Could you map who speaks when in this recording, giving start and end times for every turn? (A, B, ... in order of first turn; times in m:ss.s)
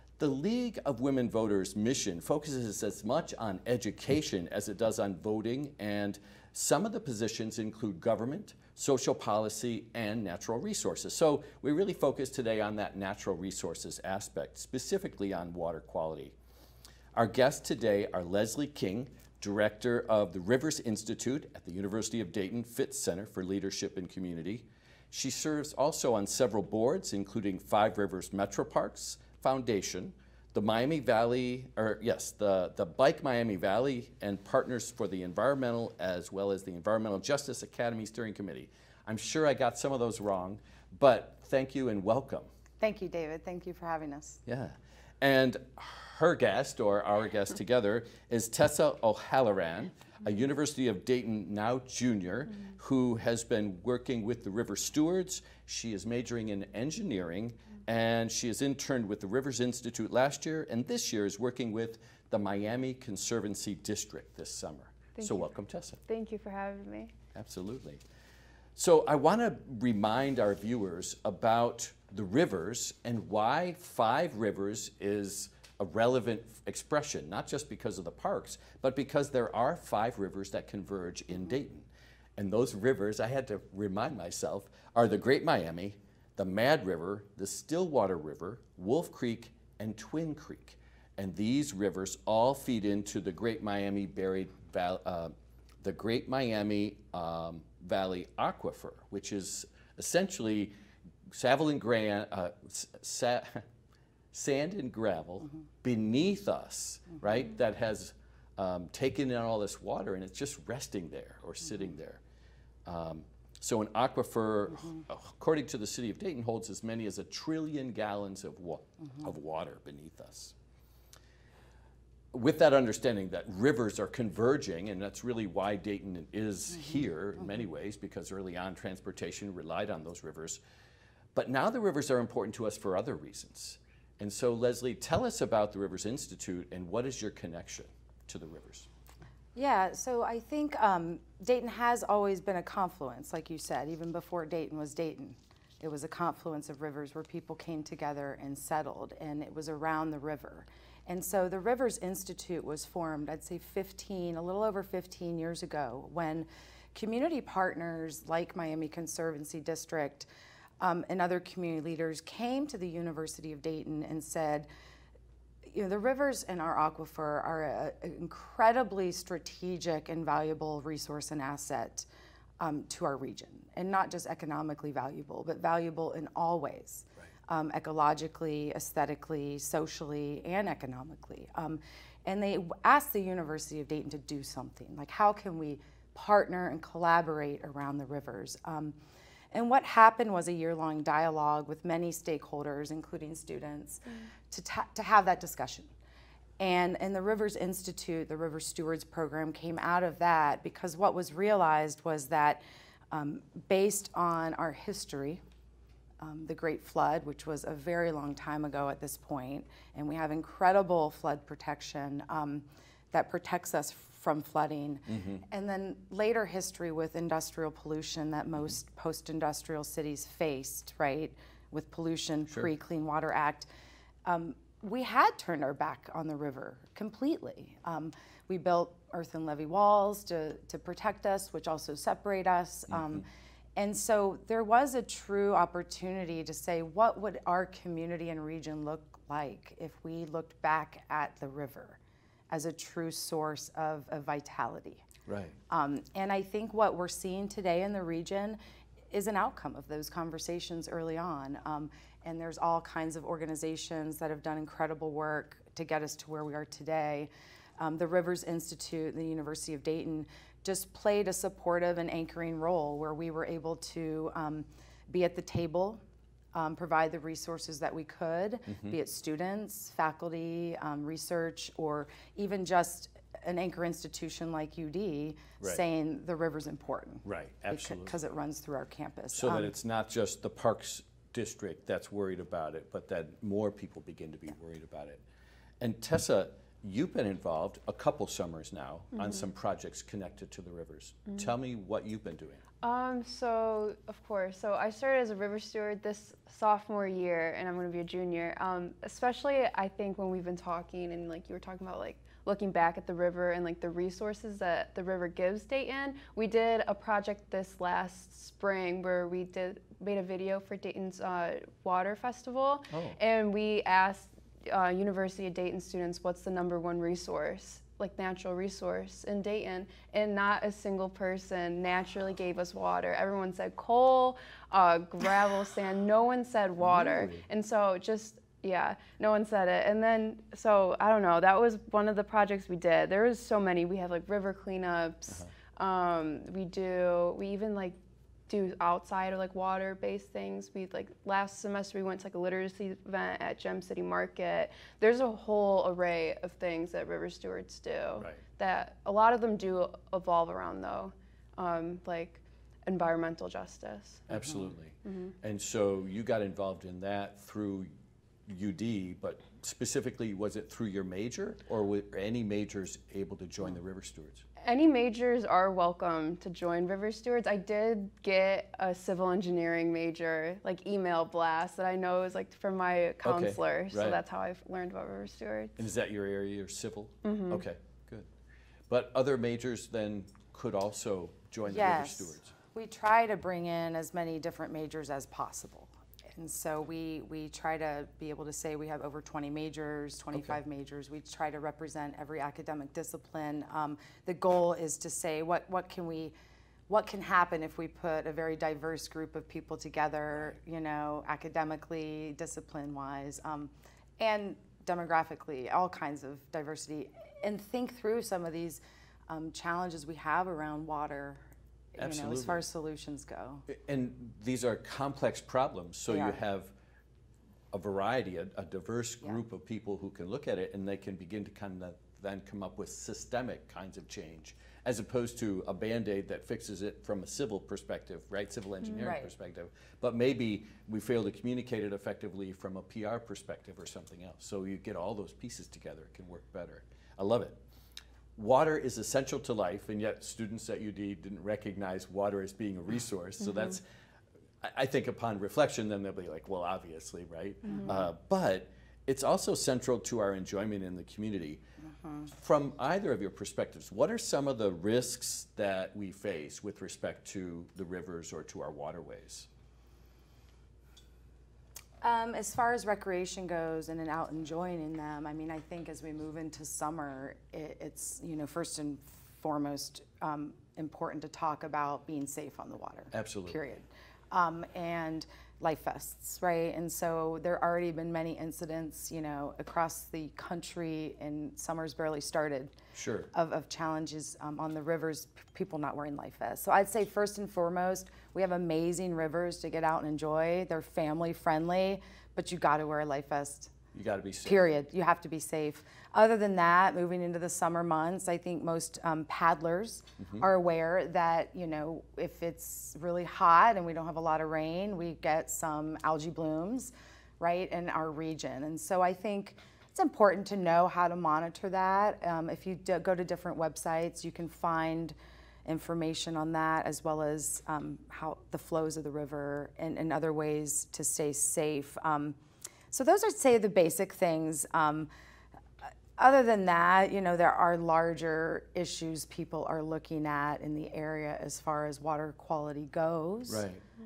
0:00.2-0:16.4 A
0:17.2-0:42.5 A
0:42.8-0:44.4 B
0:44.5-1:06.0 A
1:05.2-1:05.5 C
1:06.1-1:07.1 C
1:07.3-1:08.0 A
1:08.8-1:40.7 A
1:41.3-1:43.6 A
1:44.3-1:52.2 A
1:52.8-2:00.6 A
2:02.3-2:10.6 A
2:11.3-2:18.9 A
2:19.6-2:40.3 B
2:40.8-2:44.7 B
2:45.7-2:52.1 B
2:52.6-3:09.0 B
3:09.5-3:15.9 B
3:16.6-3:25.4 B
3:26.2-3:43.7 B
3:35.1-3:35.4 A
3:44.3-3:53.2 B
3:52.9-3:53.2 A
3:53.8-4:02.0 B
4:02.5-4:05.0 B
4:05.3-4:05.6 A
4:05.7-4:08.6 B
4:09.1-4:26.0 B
4:26.5-4:39.7 B
4:28.7-4:29.0 A
4:37.2-4:38.2 A
4:39.3-4:45.2 A
4:45.8-4:52.6 A
4:49.2-4:49.4 C
4:52.8-5:38.0 C
5:12.9-5:13.2 A
5:26.8-5:27.4 A
5:38.5-5:54.3 C
5:54.3-5:57.9 A
5:55.0-5:55.3 C
5:58.5-6:04.4 A
6:04.6-6:15.9 C
6:13.2-6:14.2 A
6:15.8-6:18.3 A
6:17.2-6:17.6 C
6:18.9-6:22.5 A
6:21.7-6:36.3 B
6:36.9-6:51.4 B
6:51.9-6:53.7 B
6:52.0-6:52.6 A
6:53.7-6:56.7 A
6:56.1-6:56.4 B
6:57.7-7:17.6 A
7:09.0-7:09.3 B
7:18.4-7:23.8 A
7:24.6-7:31.6 A
7:27.6-7:28.0 C
7:32.2-7:39.5 A
7:42.0-8:02.8 B
7:53.1-7:53.6 A
8:02.9-8:03.3 A
8:03.3-8:13.7 B
8:13.9-8:14.7 A
8:14.4-8:35.2 B
8:20.2-8:20.5 A
8:35.7-8:42.4 B
8:42.9-8:45.1 B
8:46.2-8:53.6 B
8:53.5-8:53.8 A